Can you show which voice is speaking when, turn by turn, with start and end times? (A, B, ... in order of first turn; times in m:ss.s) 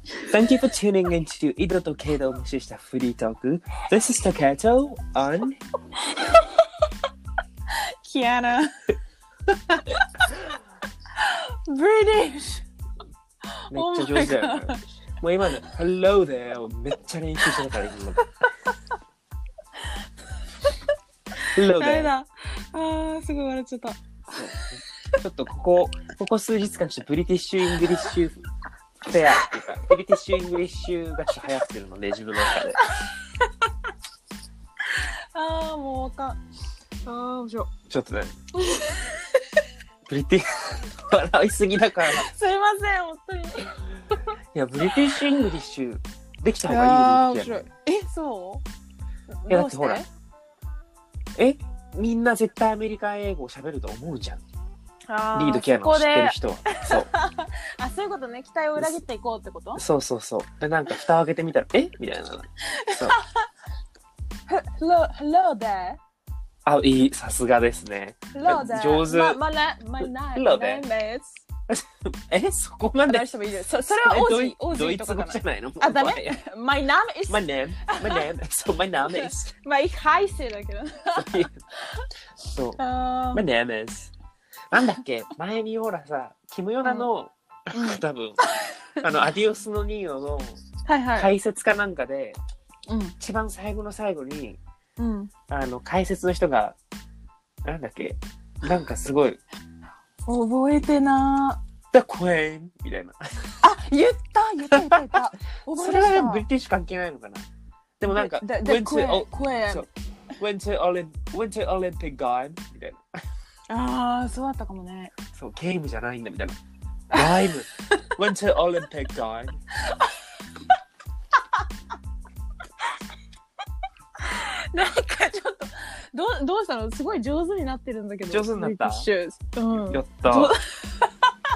0:00.3-0:05.6 A
0:06.1-0:06.5 B
0:07.7-0:08.9 B
0:09.9-0:10.4 B
0:11.2-0:12.6 B
0:13.7-0:14.8 B
0:13.7-0:18.2 A
0:21.4-0:24.7 B
0:21.5-0:22.1 A
0:24.3-0:28.4 A
0:27.7-0:28.1 B
0:29.0-0:32.8 A
0:32.8-0:33.5 B
0:34.9-0:36.4 B
0:37.1-0:37.7 B
0:37.9-0:38.3 A
0:38.6-0:39.4 B
0:40.1-0:42.3 A
0:42.1-0:44.2 B
0:44.5-0:47.7 A
0:46.7-0:48.6 B
0:49.4-0:50.1 B
0:49.5-0:50.0 A
0:51.4-0:54.4 A
0:55.1-0:59.8 B
0:55.4-0:57.1 A
0:59.8-1:03.2 A
1:02.7-1:03.4 B
1:04.5-1:06.0 B
1:06.6-1:09.4 A
1:08.3-1:11.4 B
1:10.0-1:10.8 A
1:11.7-1:13.3 A
1:13.1-1:18.3 B
1:13.9-1:16.4 A
1:17.3-1:19.5 A
1:19.0-1:22.0 B
1:21.2-1:21.6 A
1:22.5-1:22.8 A
1:22.8-1:23.4 B
1:23.3-1:24.1 A
1:24.7-1:28.4 A
1:26.8-1:27.1 B
1:27.7-1:28.0 B
1:29.0-1:30.6 A
1:30.9-1:31.3 B
1:31.2-1:32.4 A
1:32.9-1:33.1 B
1:33.2-1:34.6 A
1:35.0-1:35.3 B
1:35.5-1:36.8 A
1:37.6-1:39.4 A
1:40.3-1:41.6 B
1:41.9-1:43.6 A
1:43.6-1:46.5 B
1:44.7-1:45.2 A
1:45.7-1:47.5 A
1:48.0-1:49.9 A
1:48.1-1:49.9 B
1:50.4-1:53.0 A
1:53.7-1:55.1 B
1:55.3-1:56.6 A
1:57.1-1:59.6 A
1:57.1-1:57.4 B
2:04.2-2:11.3 B
2:08.3-2:09.1 A
2:09.9-2:10.6 A